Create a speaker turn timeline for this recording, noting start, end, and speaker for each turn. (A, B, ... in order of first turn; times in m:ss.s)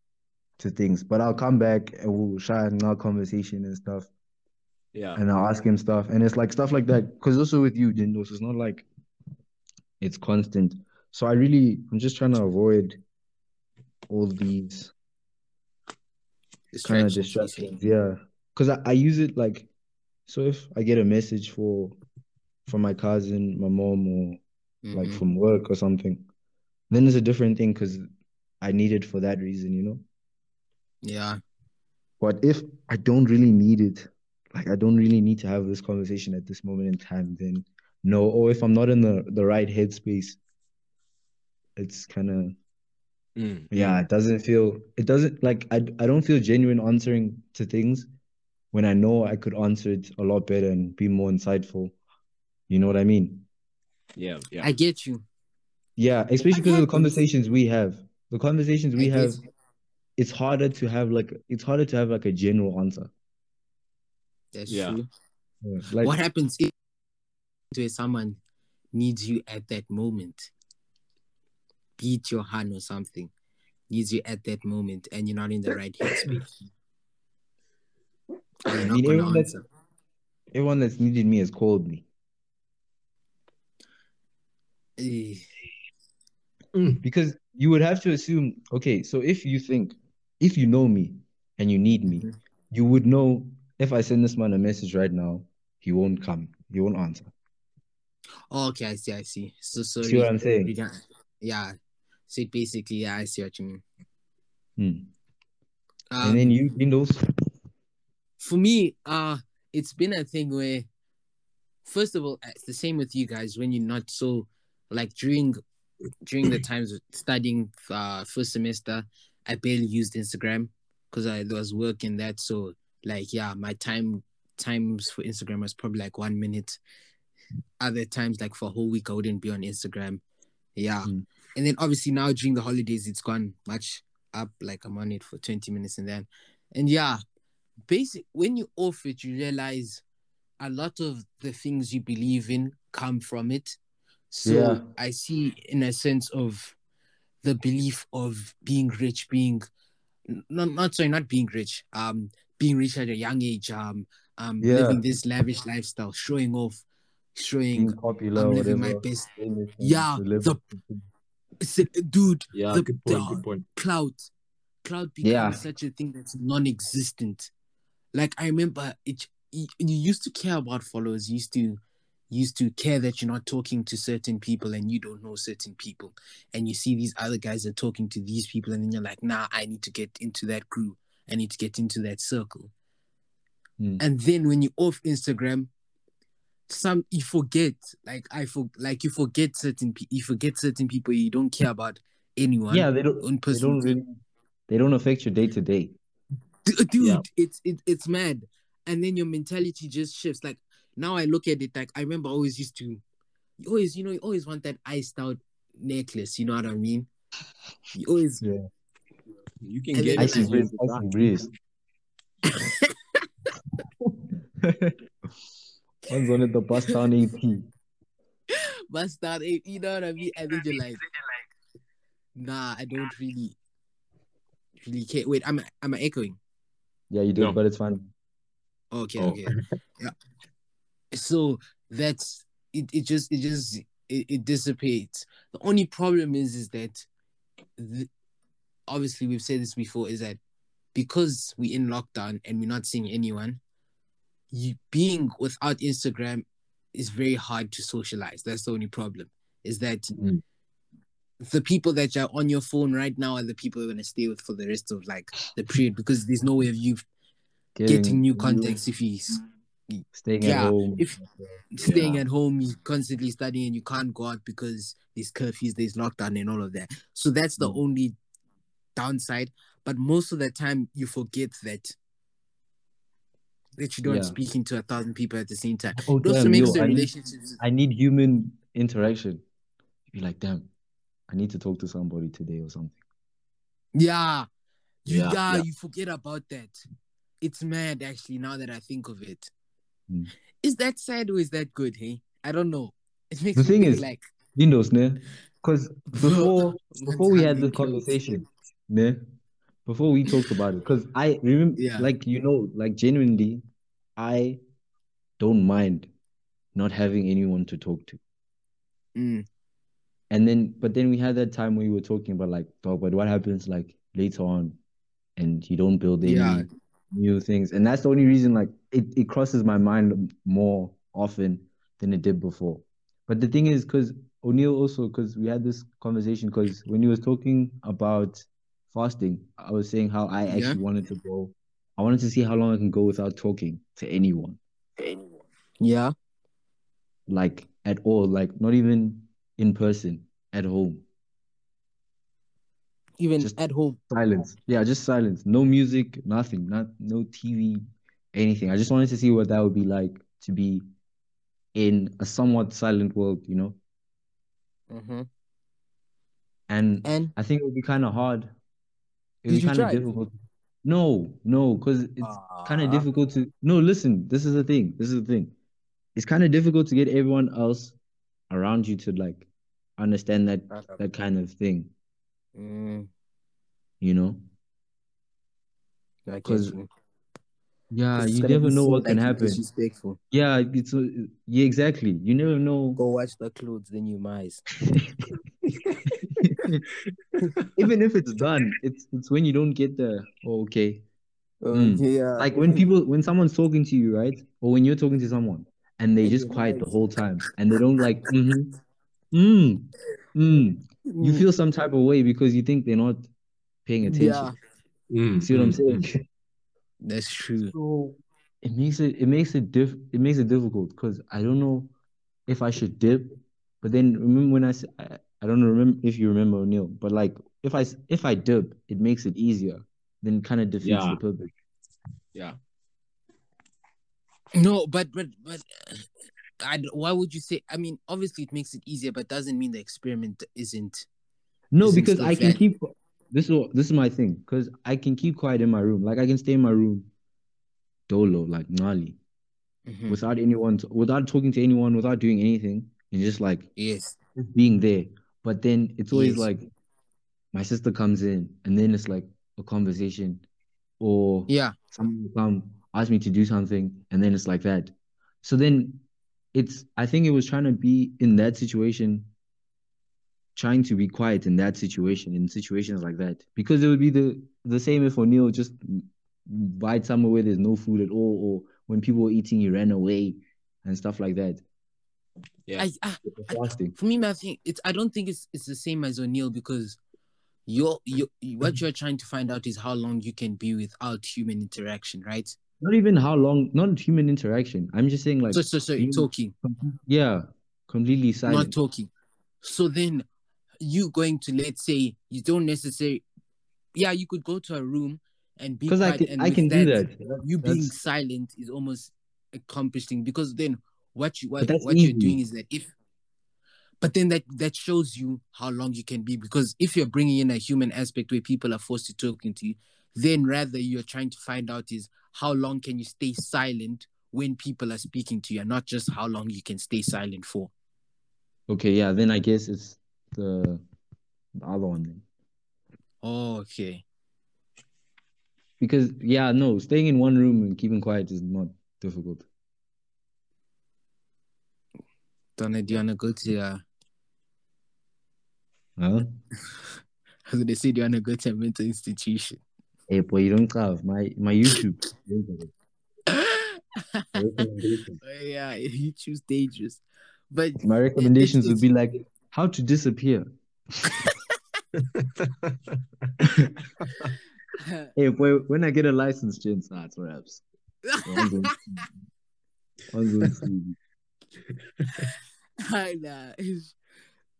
0:00.6-0:04.1 A
0:04.9-0:05.2 B
0:05.2-0:08.9 A
0:10.0-0:13.0 A
0:14.1-0:14.9 A
0:16.7-0:17.8 C
0:16.8-0:19.7 A
0:20.3-0:22.0 A
0:22.7-0:24.4 A
0:24.8-0:25.2 C
0:24.9-0:26.2 A
0:26.9-0:28.1 A
0:28.6-0:30.0 A
0:31.0-0:31.4 C
0:32.2-0:40.4 A
0:41.8-0:42.6 A
0:43.4-0:44.0 B
0:43.7-0:48.1 A
0:48.7-0:51.9 A
0:52.7-0:53.5 A
0:54.2-0:54.7 B
0:54.6-0:55.2 C
0:56.0-0:59.4 A
0:56.5-0:57.2 C
0:59.0-0:59.4 C
1:00.2-1:03.1 A
1:04.5-1:05.1 C
1:04.7-1:05.0 B
1:05.6-1:06.2 A
1:06.0-1:06.7 C
1:07.7-1:08.4 C
1:08.9-1:10.5 C
1:12.0-1:13.3 C
1:13.9-1:16.4 C
1:18.7-1:19.6 C
1:18.7-1:19.5 A
1:20.5-1:22.0 A
1:25.0-1:25.4 C
1:26.7-1:27.0 B
1:27.0-1:37.3 A
1:38.5-1:41.8 C
1:40.0-1:40.8 A
1:42.3-1:43.8 C
1:44.8-1:45.1 A
1:46.1-1:46.6 C
1:46.2-1:47.3 A
1:48.4-1:50.9 C
1:51.8-1:55.6 C
1:56.2-2:06.8 C
2:07.8-2:10.2 C
2:10.8-2:17.2 C
2:17.9-2:20.0 C
2:20.6-2:23.8 C
2:24.3-2:26.8 C
2:24.4-2:24.8 A
2:27.4-2:29.6 C
2:30.3-2:36.8 C
2:34.6-2:35.0 A
2:37.4-2:40.6 C
2:37.7-2:41.1 A
2:41.6-2:44.3 C
2:42.5-2:43.6 B
2:44.8-2:47.5 C
2:45.2-2:45.6 A
2:48.1-3:02.7 C
3:04.0-3:05.7 C
3:06.7-3:14.0 C
3:12.7-3:16.0 A
3:16.7-3:23.0 C
3:23.6-3:27.1 C
3:27.9-3:28.4 C
3:28.4-3:28.7 A
3:29.6-3:31.1 B
3:29.9-3:30.7 C
3:30.2-3:31.5 A
3:32.5-3:32.8 C
3:34.6-3:35.0 A
3:36.1-3:37.7 A
3:38.9-3:41.0 C
3:42.4-3:43.6 C
3:44.8-3:46.4 C
3:47.1-3:48.1 A
3:48.9-3:50.1 C
3:49.2-3:49.6 B
3:51.1-3:57.1 C
3:57.8-3:58.1 C
3:58.9-4:00.4 C
4:00.9-4:03.6 C
4:04.5-4:10.2 C
4:11.4-4:17.0 C
4:17.8-4:18.8 A
4:17.9-4:28.2 C
4:20.1-4:21.1 A
4:21.8-4:22.2 B
4:29.0-4:32.0 C
4:33.8-4:37.6 C
4:34.0-4:34.4 A
4:36.0-4:39.4 A
4:40.1-4:40.7 A
4:41.3-4:43.0 A
4:44.0-4:44.5 C
4:45.0-4:46.8 C
4:45.1-4:45.6 B
4:47.4-4:49.5 C
4:50.6-4:54.2 C
4:53.6-4:54.0 A
4:54.6-4:59.2 A
4:56.2-4:58.2 C
4:59.9-5:03.6 A
5:01.8-5:02.1 C
5:04.2-5:04.6 A
5:05.4-5:06.1 A
5:06.8-5:08.2 A
5:09.2-5:09.5 C
5:10.3-5:14.8 A
5:15.4-5:34.6 A
5:16.2-5:16.7 C
5:30.5-5:30.8 C
5:35.8-5:36.1 C
5:37.3-5:41.0 A
5:43.2-5:44.0 C
5:44.1-5:50.9 A
5:51.8-5:53.8 A
5:54.9-5:55.3 C
5:56.7-5:58.5 A
5:57.0-5:57.3 C
5:59.4-6:05.5 A
5:59.5-6:00.1 C
6:02.2-6:03.1 C
6:06.2-6:08.0 A
6:08.5-6:11.9 A
6:10.7-6:11.0 C
6:12.6-6:13.1 C
6:14.0-6:14.4 A
6:16.3-6:16.9 C
6:16.4-6:16.8 A
6:17.9-6:19.6 A
6:18.2-6:20.2 C
6:20.3-6:23.0 A
6:23.0-6:24.7 C
6:26.4-6:26.8 A
6:27.8-6:31.0 A
6:31.6-6:32.8 C
6:31.7-6:38.7 A
6:36.2-6:37.0 C
6:39.3-6:43.3 A
6:41.1-6:41.5 C
6:43.9-6:44.5 A
6:44.1-6:44.6 C
6:45.1-6:46.1 B
6:45.4-6:46.2 A
6:47.0-6:47.8 C
6:47.7-6:51.9 A
6:52.5-7:01.5 A
7:00.8-7:01.2 B
7:04.5-7:06.1 C
7:06.6-7:11.1 C
7:11.7-7:17.1 A
7:11.8-7:12.6 C
7:18.1-7:19.2 A
7:19.9-7:20.2 C
7:20.1-7:23.7 A
7:23.8-7:24.2 C
7:24.5-7:26.7 A
7:26.1-7:26.5 C
7:27.5-7:30.4 A
7:31.0-7:39.3 A
7:31.5-7:31.8 C
7:40.6-7:51.6 A
7:52.8-7:57.0 C
7:53.3-7:54.0 A
7:57.7-8:02.6 C
8:02.8-8:08.7 A
8:05.5-8:06.5 C
8:08.5-8:09.1 C
8:09.6-8:10.2 C
8:10.8-8:13.2 C
8:13.9-8:22.9 C
8:15.9-8:17.9 A
8:21.6-8:22.4 A
8:24.0-8:37.7 C
8:38.7-8:40.8 A
8:41.6-8:42.2 A
8:43.2-8:44.0 C
8:45.8-8:49.5 A
8:52.6-8:53.8 C
8:56.0-8:56.4 A
8:57.5-8:59.6 C
9:00.1-9:02.7 A
9:03.3-9:04.7 C
9:04.4-9:05.2 A
9:05.2-9:08.9 C
9:07.8-9:10.5 A
9:12.0-9:12.8 B
9:13.4-9:13.7 A
9:14.0-9:14.3 B
9:14.8-9:15.1 C
9:15.2-9:17.6 A
9:18.1-9:18.7 C
9:18.2-9:19.2 A
9:20.1-9:21.0 A
9:22.8-9:24.0 C